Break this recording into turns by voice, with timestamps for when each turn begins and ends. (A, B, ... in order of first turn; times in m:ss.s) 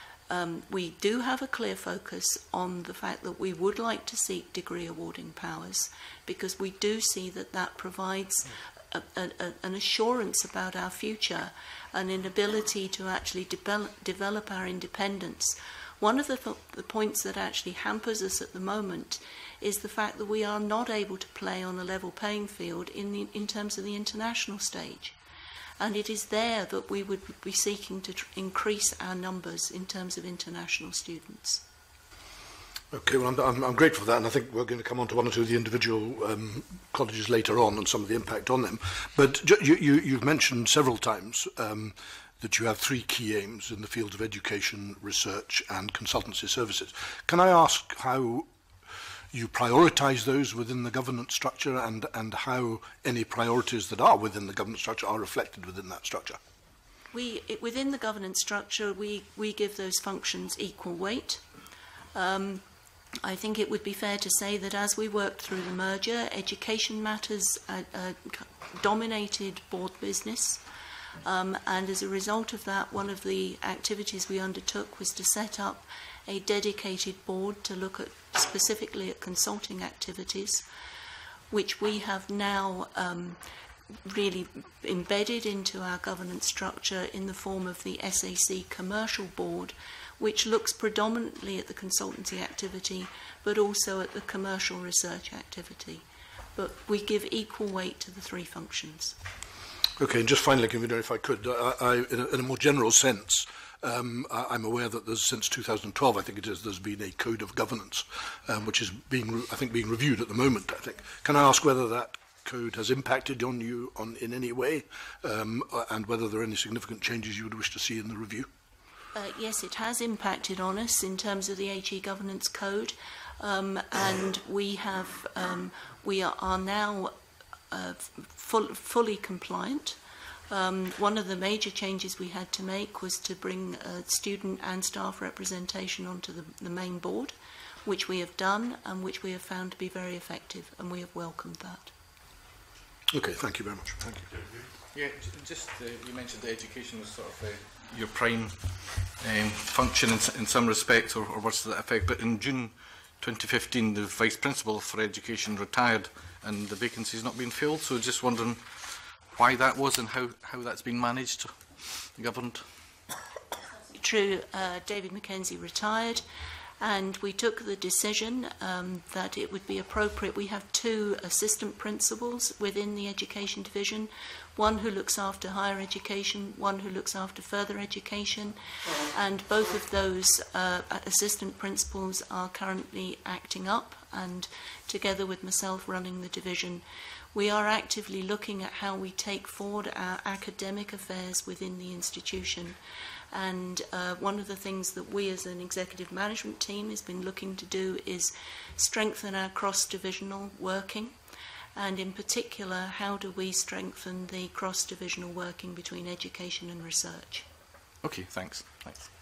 0:00.3-0:25.2 A
0:25.8-0:31.6 A
0:32.9-0:48.5 B
0:49.3-0:56.4 B
0:57.1-1:01.4 A
1:02.2-1:02.6 A
1:03.2-1:10.6 A
1:11.2-1:20.6 A
1:21.5-1:23.4 A
1:24.0-1:36.0 A
1:36.6-1:39.2 A
1:40.0-1:58.5 B
1:59.2-2:07.1 A
2:07.7-2:10.0 A
2:10.5-2:21.9 A
2:23.1-2:24.3 B
2:24.9-2:42.7 C
2:43.9-2:46.2 A
2:46.8-3:12.8 A
3:13.3-3:21.2 A
3:21.8-3:27.5 A
3:28.0-3:29.1 C